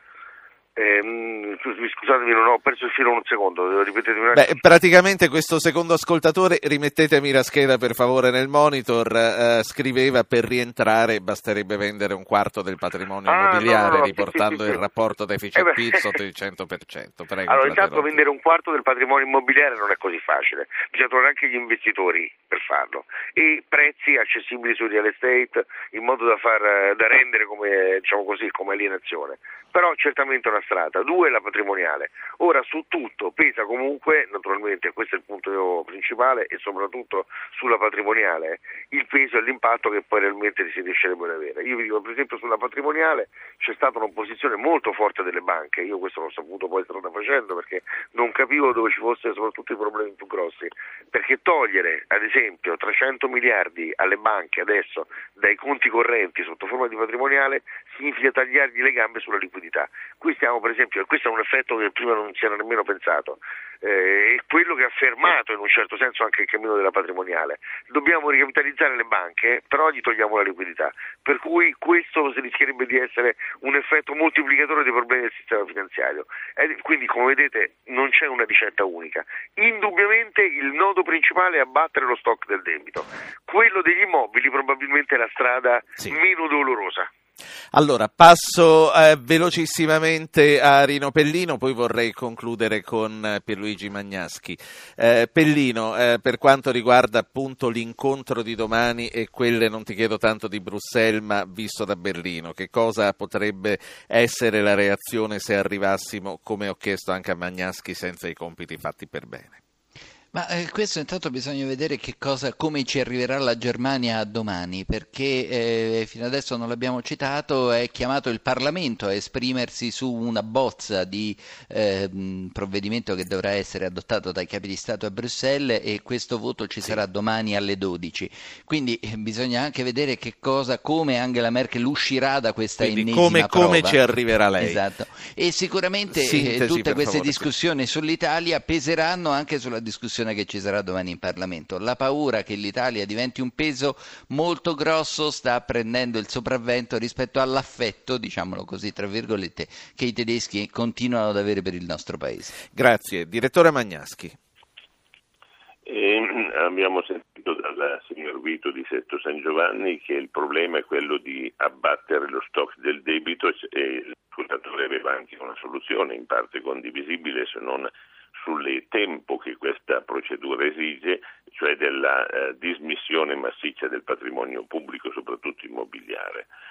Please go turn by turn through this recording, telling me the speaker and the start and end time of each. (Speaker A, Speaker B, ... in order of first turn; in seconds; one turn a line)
Speaker A: 0.8-4.5
Speaker B: 4.3-18.2
Speaker A: 13.3-14.8
Speaker A: 15.6-16.2
Speaker A: 17.5-87.1
Speaker B: 87.7-109.6
Speaker C: 110.3-134.0
Speaker B: 132.8-134.8
Speaker C: 134.6-152.6
Speaker B: 136.1-137.5
Speaker B: 152.7-154.3
Speaker D: 155.9-176.5